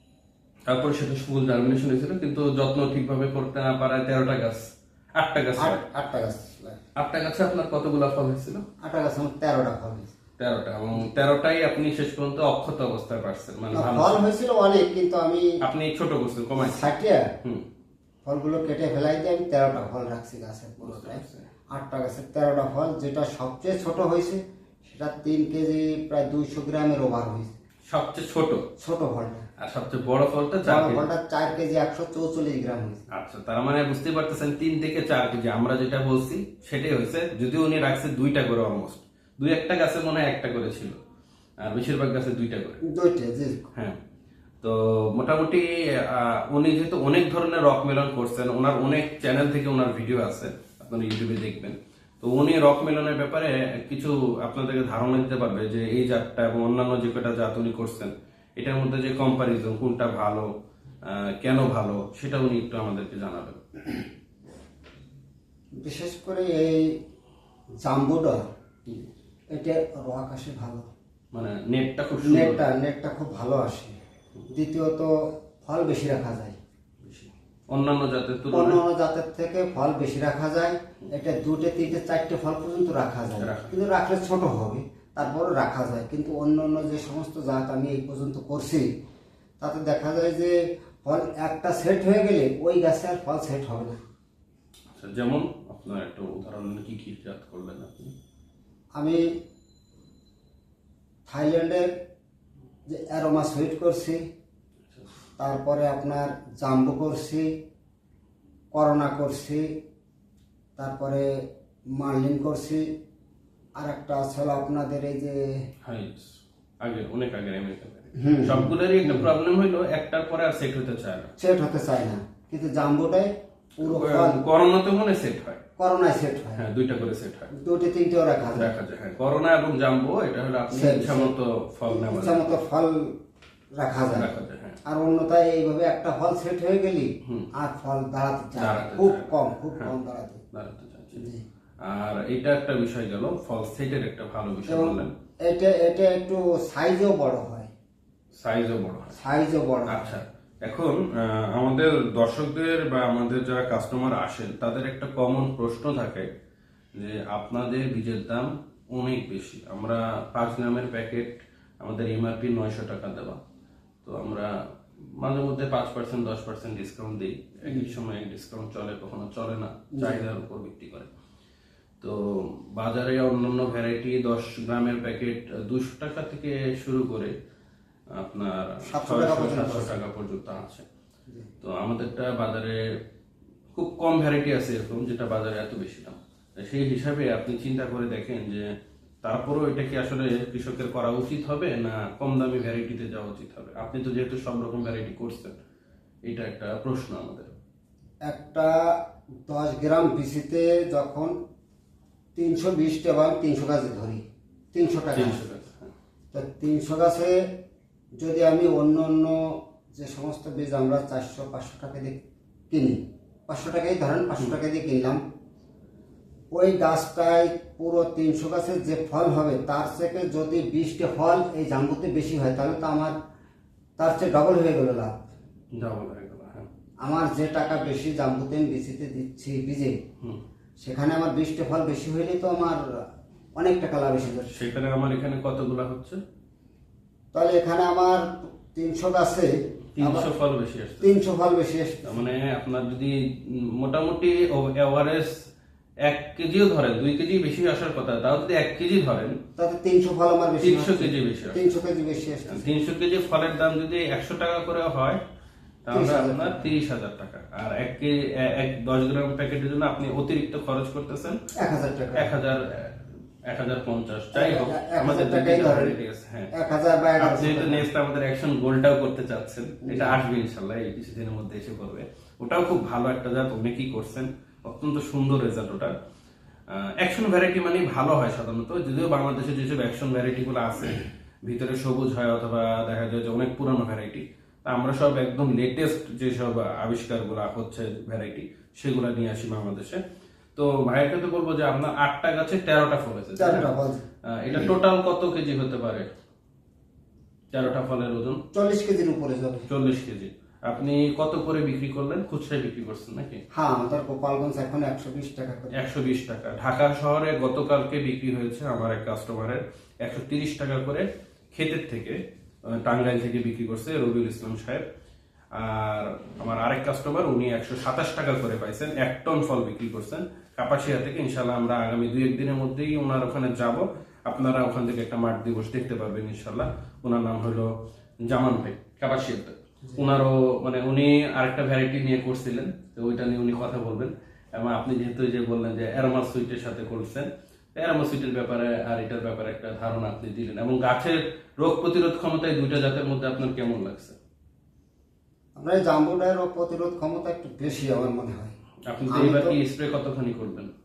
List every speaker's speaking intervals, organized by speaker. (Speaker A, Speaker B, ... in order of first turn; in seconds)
Speaker A: 0.7-5.8, 7.0-8.6, 10.4-14.2, 15.6-16.9, 20.8-21.4, 27.9-28.6, 29.6-31.0, 33.1-41.0, 41.6-42.8, 44.6-60.5, 61.1-63.6, 71.3-72.6, 77.0-78.8, 83.3-83.7, 94.9-98.1, 115.8-121.3, 123.8-125.6, 126.5-127.5, 128.4-132.6, 134.1-134.8, 138.6-139.9, 140.5-141.2, 141.8-145.1, 148.4-149.2, 149.9-156.3, 156.9-163.4, 164.0-164.5, 165.1-171.1, 172.0-177.3, 178.1-180.8, 181.6-182.8, 183.7-188.7, 189.2-195.6, 196.3-197.5, 205.1-205.9, 225.7-226.7, 234.5-236.2, 239.9-241.1, 242.0-245.3, 246.1-249.4, 250.6-251.6, 252.5-255.2, 255.8-261.4, 262.1-266.5, 267.2-275.9, 276.8-290.0, 290.6-293.7, 294.3-296.1, 297.5-298.4, 299.7-303.4, 305.7-314.8, 315.5-327.7, 328.2-344.1, 348.9-350.7
Speaker B: 5.6-6.8, 8.8-10.2, 13.7-15.5, 16.6-17.3, 18.2-21.2, 21.7-27.6, 28.8-29.4, 30.6-33.0, 42.9-43.6, 65.8-67.0, 67.8-68.5, 69.5-70.9, 72.2-74.0, 74.5-76.6, 78.5-88.9, 89.6-94.0, 99.0-99.2, 101.2-101.9, 102.9-104.2, 105.4-107.5, 108.7-109.7, 110.8-111.3, 111.9-112.9, 113.8-115.5, 118.2-119.3, 121.4-124.4, 125.8-126.6, 127.5-128.7, 130.7-131.3, 131.8-133.2, 133.8-134.3, 134.8-140.4, 141.2-141.4, 144.7-147.7, 149.2-150.2, 167.7-167.9, 170.0-170.3, 178.9-180.0, 198.2-201.3, 202.3-205.4, 206.3-207.4, 208.2-215.2, 216.5-223.1, 224.0-225.2, 227.0-229.9, 230.8-232.8, 233.6-234.6, 237.3-240.3, 241.0-242.3, 249.6-252.7, 255.9-256.7, 261.6-262.3, 264.3-265.9, 266.5-267.9, 269.8-270.2, 293.4-294.0, 298.5-299.7, 303.5-305.8, 345.6-348.5, 349.1-349.6